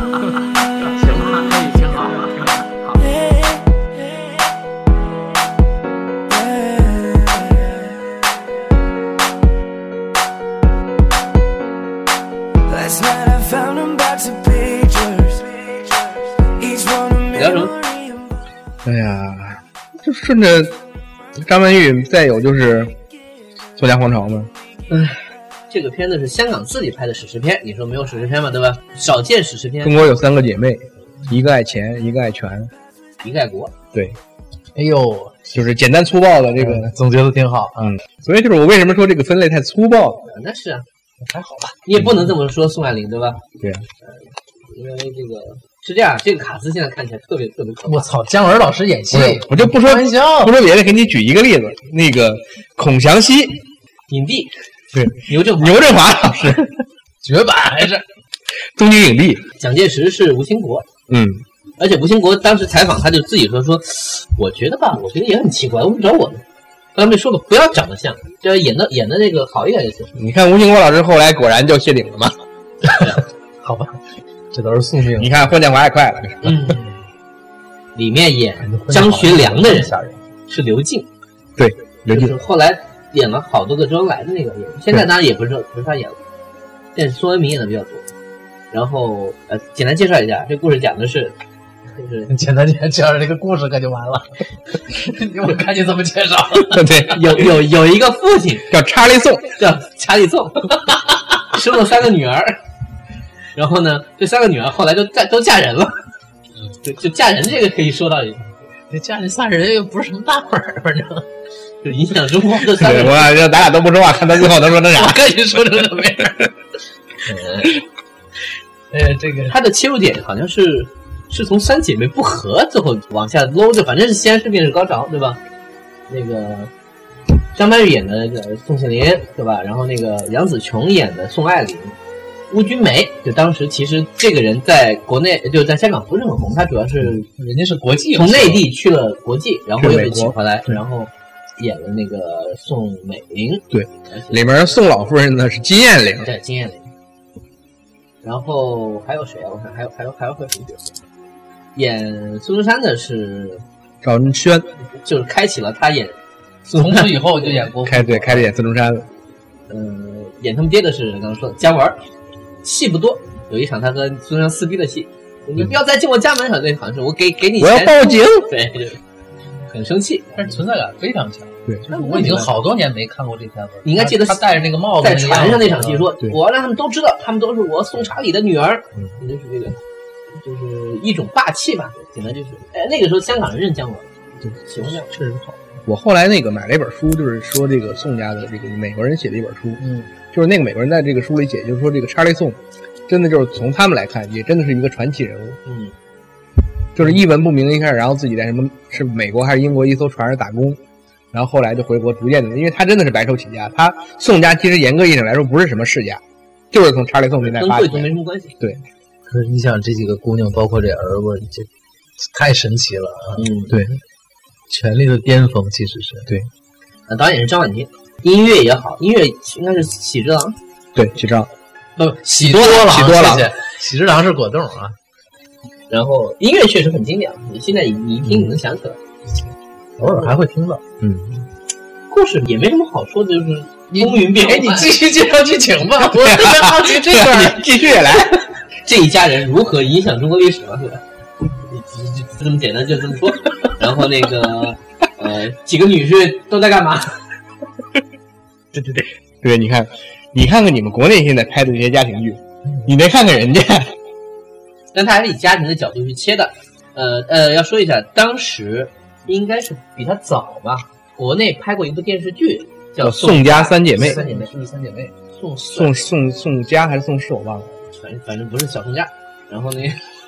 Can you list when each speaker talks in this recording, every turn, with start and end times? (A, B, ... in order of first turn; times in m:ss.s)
0:00.8-0:03.0 A
0:00.8-0:02.3 B
0:03.1-0:03.6 C
0:06.3-0:07.8 C
0:12.7-0:18.3 C
0:17.3-0:17.7 D
0:18.8-0:20.8 E
0:21.4-0:23.0 E
0:23.8-0:24.5 E
0:24.9-0:30.0 D
0:29.8-0:32.7 E
0:33.2-0:33.7 D
0:33.9-0:34.2 E
0:34.8-0:35.6 B
0:35.5-0:36.9 E
0:36.6-0:37.9 B
0:37.8-0:40.3 E
0:40.3-0:40.8 D
0:41.2-0:41.8 B
0:41.8-0:43.4 D
0:43.6-0:43.8 E
0:44.0-0:48.1 D
0:47.9-0:50.6 B
0:49.1-0:53.6 E
0:54.1-0:54.5 D
0:54.9-0:56.8 E
0:55.2-0:56.0 D
0:57.2-0:58.0 B
0:58.8-0:59.4 E
0:59.6-1:00.9 D
1:01.1-1:01.4 E
1:01.8-1:06.4 D
1:07.0-1:10.1 D
1:10.2-1:12.4 E
1:13.0-1:13.2 D
1:13.6-1:15.3 B
1:15.2-1:16.7 E
1:16.4-1:16.8 D
1:18.0-1:19.9 D
1:18.6-1:20.2 B
1:20.5-1:21.1 D
1:21.6-1:22.3 E
1:22.1-1:26.2 D
1:27.0-1:28.1 D
1:28.7-1:31.4 D
1:31.9-1:32.3 D
1:32.3-1:37.0 B
1:36.7-1:37.5 E
1:37.1-1:38.7 D
1:38.7-1:39.6 E
1:39.6-1:42.6 D
1:43.6-1:46.0 D
1:46.8-1:48.5 D
1:48.9-1:51.3 B
1:51.8-1:53.4 D
1:52.7-1:55.3 E
1:54.4-1:56.5 B
1:57.2-1:57.8 D
1:58.9-1:59.6 B
1:59.5-2:05.4 D
2:06.1-2:06.7 D
2:07.5-2:12.0 D
2:12.5-2:17.3 D
2:17.3-2:18.7 B
2:18.1-2:24.5 D
2:19.8-2:20.4 E
2:23.7-2:26.3 E
2:26.2-2:26.9 D
2:28.2-2:30.9 D
2:31.8-2:33.6 D
2:34.0-2:34.7 E
2:35.0-2:37.6 D
2:36.7-2:38.5 B
2:37.8-2:39.1 E
2:39.7-2:42.0 D
2:42.6-2:49.0 D
2:47.6-2:48.5 E
2:49.7-2:50.4 D
2:50.4-2:56.1 B
2:51.9-2:52.5 D
2:53.8-2:54.4 D
2:55.0-2:59.8 D
3:00.4-3:04.1 D
3:04.6-3:05.1 D
3:05.1-3:05.5 B
3:05.9-3:15.6 E
3:15.7-3:15.9 D
3:17.0-3:20.8 E
3:21.3-3:28.8 E
3:27.5-3:28.6 D
3:29.3-3:31.7 B
3:32.2-3:33.9 B
3:33.4-3:33.7 D
3:34.7-3:36.3 B
3:37.1-3:40.6 D
3:41.0-3:41.5 E
3:42.0-3:45.0 B
3:42.4-3:43.5 E
3:45.9-3:49.0 D
3:50.0-3:50.8 B
3:51.0-3:51.4 E
3:52.1-3:55.0 D
3:53.9-3:57.7 B
3:56.1-3:58.4 E
3:58.8-4:01.0 D
4:01.6-4:07.2 D
4:09.4-4:13.9 E
4:14.9-4:24.5 D
4:23.0-4:24.2 E
4:24.0-4:25.1 B
4:25.3-4:26.0 D
4:25.7-4:27.7 E
4:27.9-4:30.0 D